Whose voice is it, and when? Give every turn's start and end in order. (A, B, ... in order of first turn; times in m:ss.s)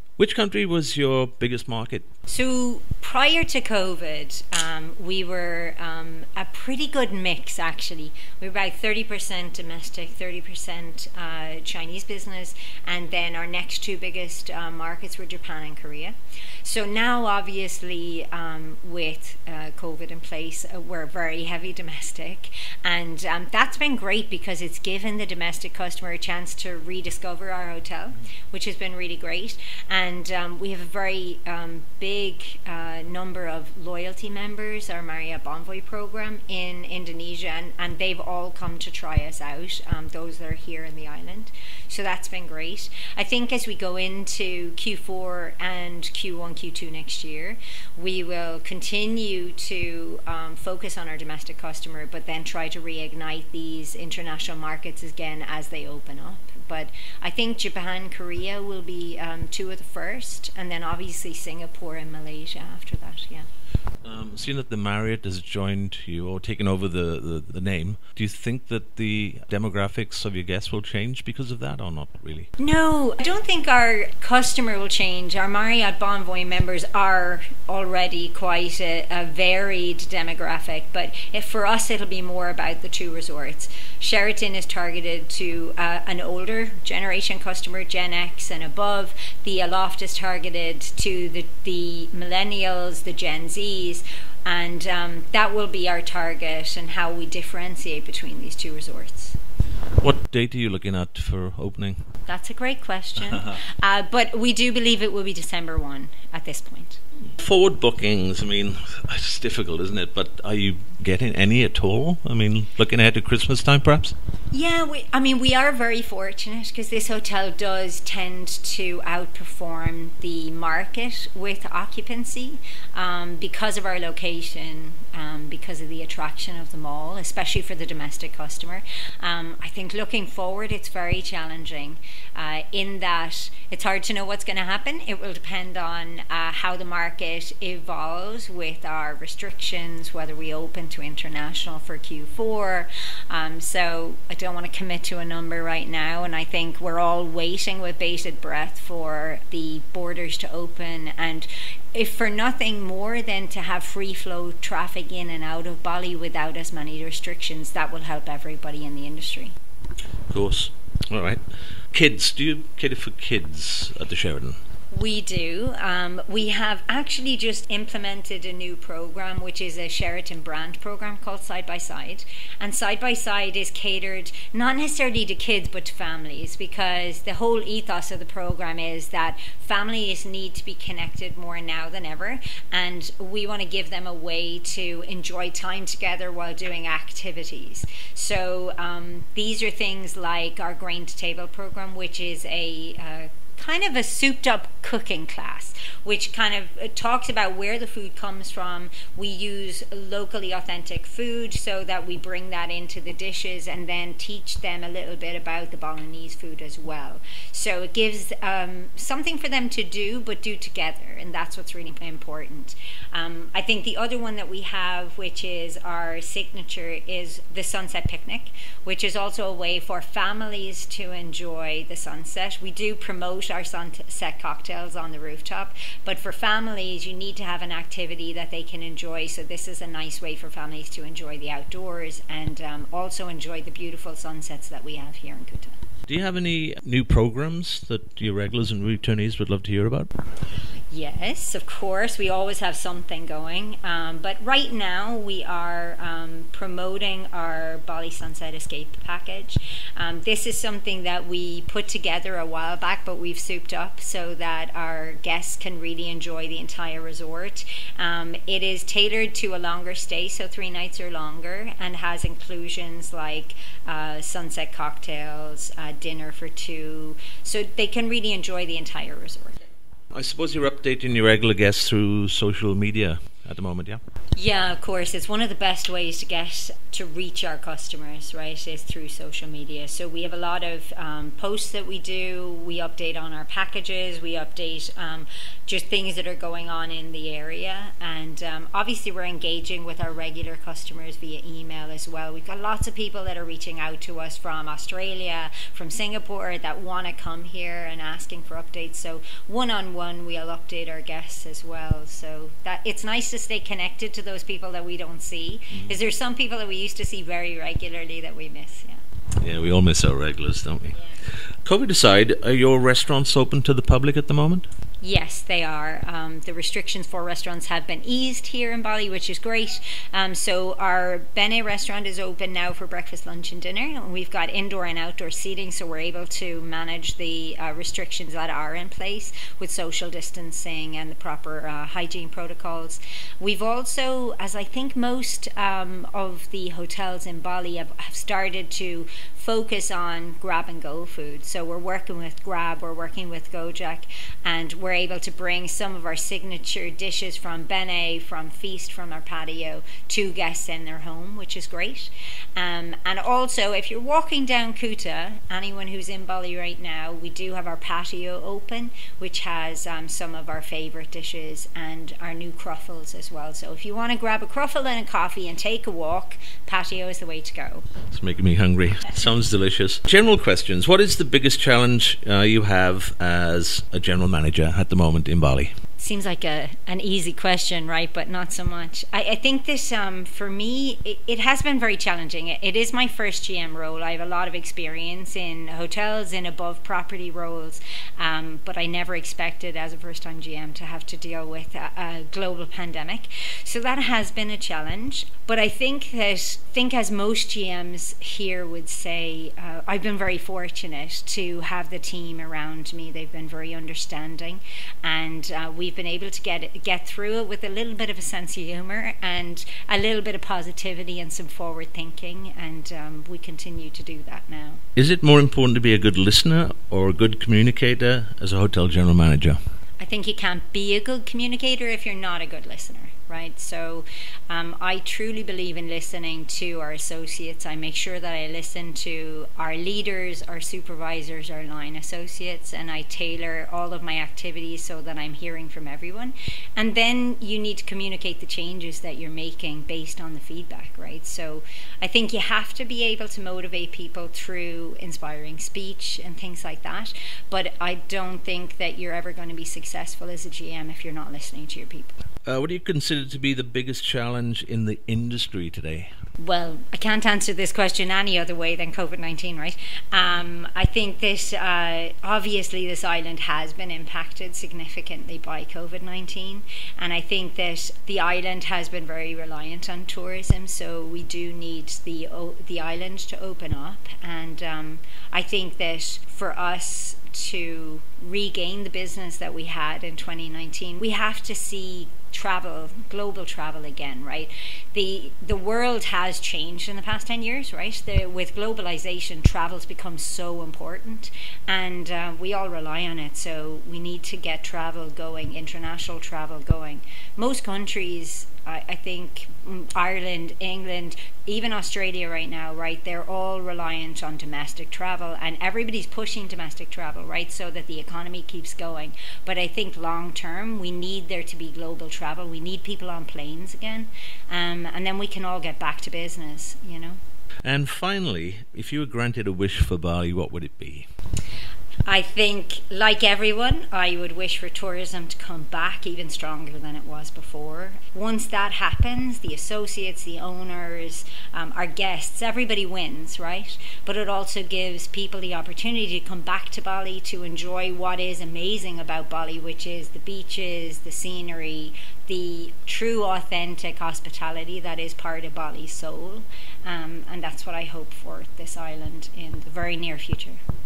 0:00.2-0:02.1 A
0:02.3-1:03.4 B
1:04.0-1:12.5 A
1:12.6-1:39.4 B
1:40.0-1:42.0 A
1:42.3-1:47.0 B
1:47.4-1:54.1 A
1:54.5-2:39.5 B
2:40.3-2:44.6 A
2:44.9-3:55.8 B
3:56.1-4:00.1 A
4:00.9-4:29.6 B
4:30.1-4:34.0 A
4:34.4-5:09.0 B
5:09.4-5:11.0 A
5:11.6-5:14.7 A
5:15.0-6:07.8 B
6:08.1-6:15.7 A
6:16.0-6:54.8 B
6:55.0-6:59.6 A
7:00.0-7:32.1 B
7:32.4-7:36.1 A
7:36.4-8:37.2 B
8:37.6-8:41.1 A
8:42.1-9:10.6 B